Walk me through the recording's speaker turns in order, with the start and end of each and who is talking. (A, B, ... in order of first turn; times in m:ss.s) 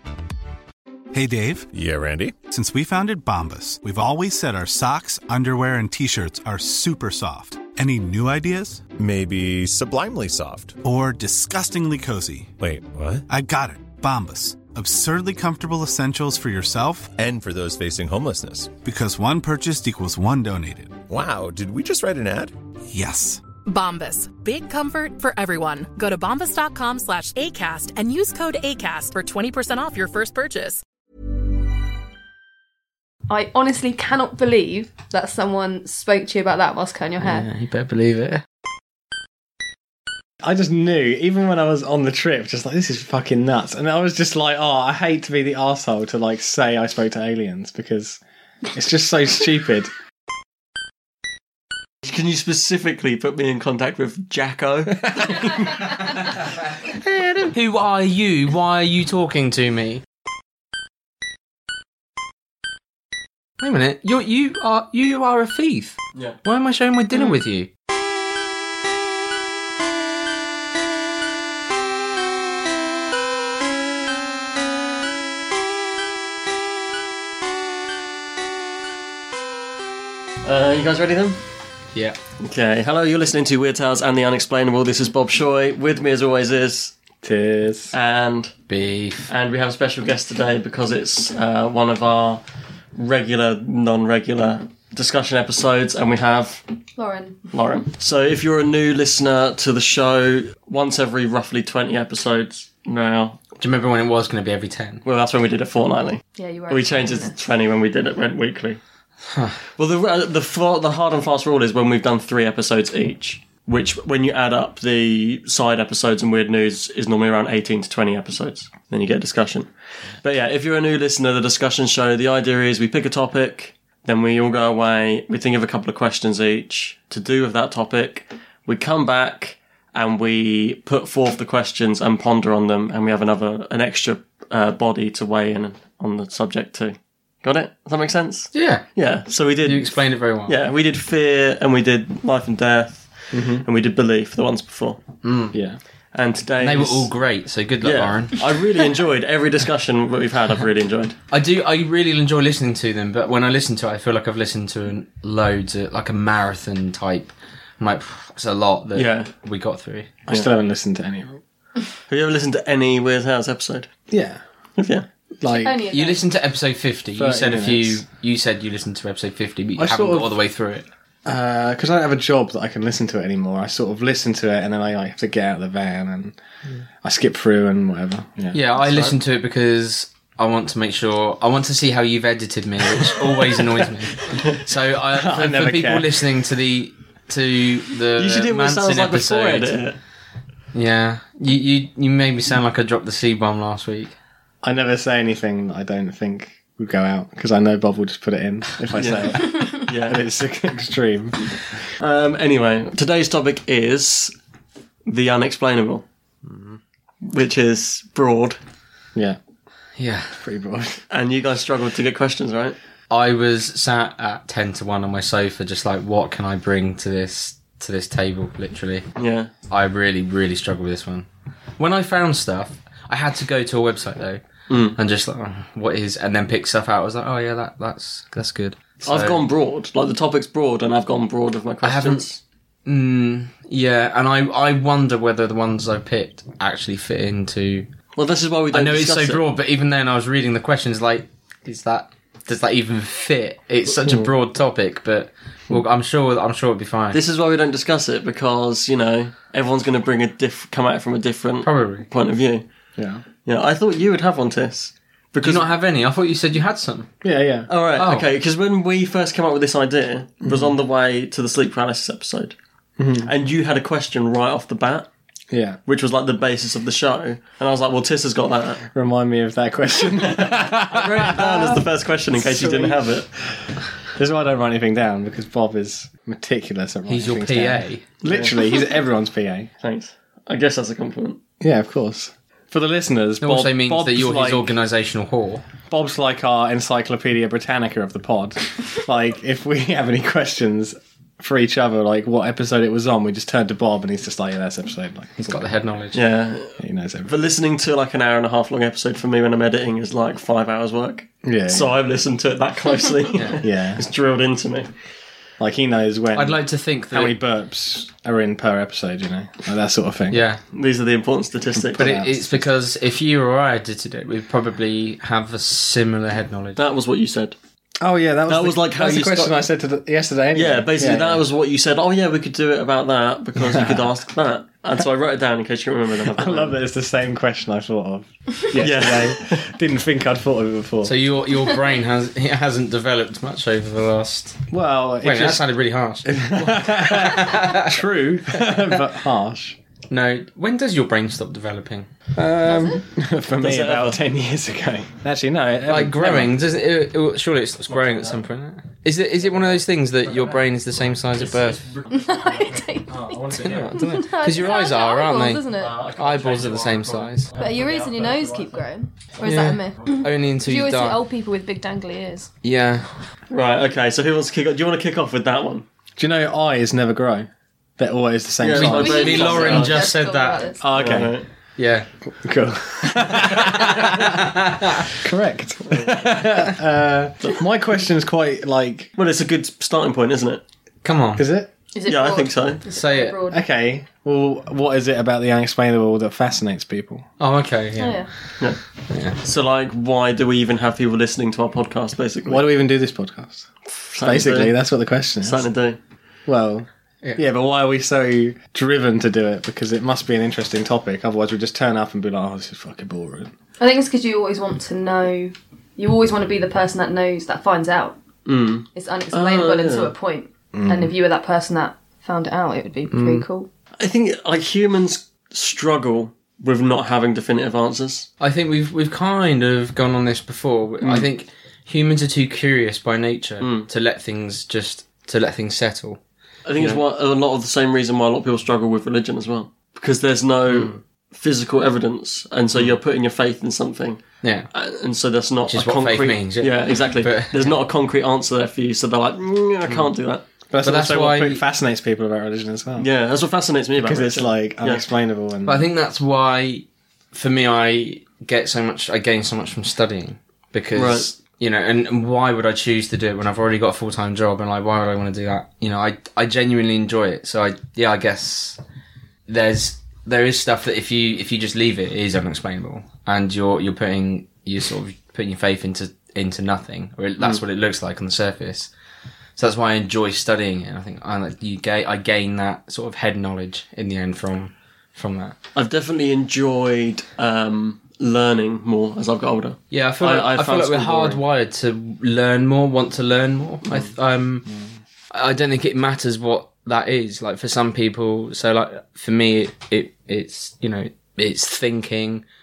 0:01.1-0:01.7 A
0:01.7-0:02.4 B
0:02.4-0:08.9 A
0:09.0-0:10.8 B
0:10.8-0:12.5 A
0:12.6-0:13.3 B
0:13.3-0:17.1 A
0:17.2-0:18.8 B
0:18.8-0:21.0 A
0:21.1-0:22.5 B
0:22.9-0:23.4 A
0:23.6-0:30.8 C
0:33.3-0:37.5 D
0:37.2-0:38.4 E
0:40.4-0:49.9 F
0:52.0-0:55.8 G
0:57.1-1:00.0 E
1:03.6-1:07.7 E
1:20.4-1:21.4 G
1:22.4-1:27.0 G
1:27.2-1:28.0 F
1:27.9-1:28.5 G
1:28.7-1:29.3 E
1:29.3-1:32.4 G
1:33.0-1:36.6 G
1:37.0-1:37.4 D
1:37.5-1:43.4 G
1:43.6-1:45.0 E
1:45.0-1:48.8 G
1:46.4-1:47.3 D
1:49.3-1:49.6 E
1:49.8-2:25.0 G
2:18.5-2:18.8 E
2:19.6-2:20.6 E
2:23.3-2:23.7 F
2:25.2-2:25.6 E
2:25.5-2:25.8 F
2:26.1-2:27.1 G
2:26.6-2:28.4 E
2:27.8-2:31.2 G
2:31.3-2:40.1 E
2:39.0-2:39.3 G
2:40.3-2:41.4 F
2:42.1-2:43.9 G
2:44.1-2:44.4 F
2:44.8-2:45.0 G
2:45.4-2:45.9 F
2:45.5-2:46.2 D
2:45.9-2:50.9 E
2:47.2-2:48.0 F
2:49.8-2:50.4 F
2:51.2-2:56.4 F
2:57.0-2:59.2 F
2:58.5-3:09.8 E
3:05.1-3:06.2 F
3:08.2-3:10.0 G
3:10.7-3:14.1 E
3:14.6-3:21.6 F
3:19.0-3:20.2 G
3:22.0-3:24.3 G
3:25.1-3:26.0 G
3:26.5-3:26.8 E
3:27.2-3:28.6 G
3:30.0-3:30.4 E
3:30.4-3:31.0 F
3:31.1-3:32.8 G
3:33.1-3:39.0 E
3:39.2-3:39.5 G
3:39.7-3:44.4 E
3:44.7-3:45.0 G
3:45.0-3:49.4 E
3:49.0-3:52.4 G
3:51.8-3:52.2 E
3:52.9-3:57.9 E
3:58.2-3:59.4 G
3:58.7-4:07.2 E
4:07.1-4:12.6 G
4:11.6-4:12.1 E
4:13.0-4:13.2 F
4:13.4-4:15.7 G
4:15.4-4:17.1 E
4:17.2-4:17.7 F
4:17.7-4:22.6 G
4:18.0-4:18.3 E
4:20.4-4:20.7 F
4:23.0-4:23.3 F
4:23.2-4:25.1 G
4:25.5-4:25.8 F
4:25.9-4:28.9 G
4:28.9-4:39.7 F
4:30.3-4:33.3 G
4:37.1-4:38.0 E
4:38.2-4:38.6 G
4:39.8-4:41.4 G
4:41.6-4:44.7 F
4:43.4-4:45.6 E
4:45.9-4:55.7 F
4:55.4-4:56.2 E
4:56.1-5:04.9 G
4:56.8-4:57.3 F
5:01.4-5:02.0 F
5:03.4-5:03.6 E
5:03.6-5:04.0 F
5:05.6-5:10.4 F
5:06.3-5:07.4 E
5:10.3-5:10.6 E
5:10.7-5:12.2 G
5:11.7-5:12.7 F
5:12.0-5:16.8 E
5:16.8-5:17.6 G
5:18.0-5:21.4 F
5:18.5-5:19.6 G
5:20.6-5:26.8 G
5:23.6-5:24.1 F
5:26.3-5:31.1 F
5:28.8-5:29.7 G
5:31.0-5:34.6 E
5:34.7-5:35.7 F
5:35.2-5:37.9 E
5:36.2-5:39.8 F
5:38.6-5:39.0 E
5:40.1-5:42.1 E
5:42.3-5:46.5 F
5:42.6-5:43.0 D
5:43.6-5:44.2 G
5:45.9-5:51.8 E
5:47.9-5:48.4 G
5:49.4-5:54.1 G
5:52.1-5:56.0 D
5:53.6-5:57.5 E
5:55.7-5:58.9 G
5:57.6-6:02.5 D
5:59.4-6:01.2 E
6:02.6-6:03.2 E
6:03.5-6:05.9 G
6:06.2-6:09.9 F
6:08.6-6:10.0 G
6:08.8-6:10.6 E
6:08.8-6:10.8 D
6:10.8-6:11.4 F
6:11.0-6:11.4 G
6:11.8-6:12.1 E
6:12.3-6:14.5 F
6:13.3-6:15.1 E
6:15.1-6:19.1 F
6:15.9-6:16.3 G
6:19.2-6:20.6 G
6:21.0-6:21.4 E
6:21.4-6:21.7 F
6:21.9-6:23.6 D
6:22.1-6:22.8 G
6:22.9-6:23.4 E
6:23.5-6:27.3 F
6:27.4-6:28.6 E
6:28.0-6:28.3 D
6:29.1-6:29.4 E
6:29.4-6:32.6 G
6:32.5-6:33.7 F
6:33.9-6:34.7 G
6:34.2-6:35.6 F
6:35.4-6:36.0 G
6:36.5-6:43.5 F
6:43.8-6:48.2 D
6:48.5-6:50.1 G
6:48.9-6:53.7 D
6:50.7-6:51.1 F
6:53.1-6:53.4 E
6:54.0-6:58.3 G
6:58.4-7:06.2 E
7:01.0-7:01.3 G
7:03.6-7:03.9 G
7:06.7-7:20.4 G
7:10.7-7:11.0 E
7:14.4-7:14.7 E
7:15.7-7:17.8 E
7:20.7-7:23.1 F
7:20.8-7:21.6 E
7:23.0-7:25.0 G
7:24.0-7:25.9 F
7:25.7-7:38.8 E
7:31.0-7:31.3 G
7:39.5-7:48.9 E
7:49.6-7:55.6 E
7:55.8-8:01.4 G
7:59.9-8:04.7 E
8:05.3-8:12.4 E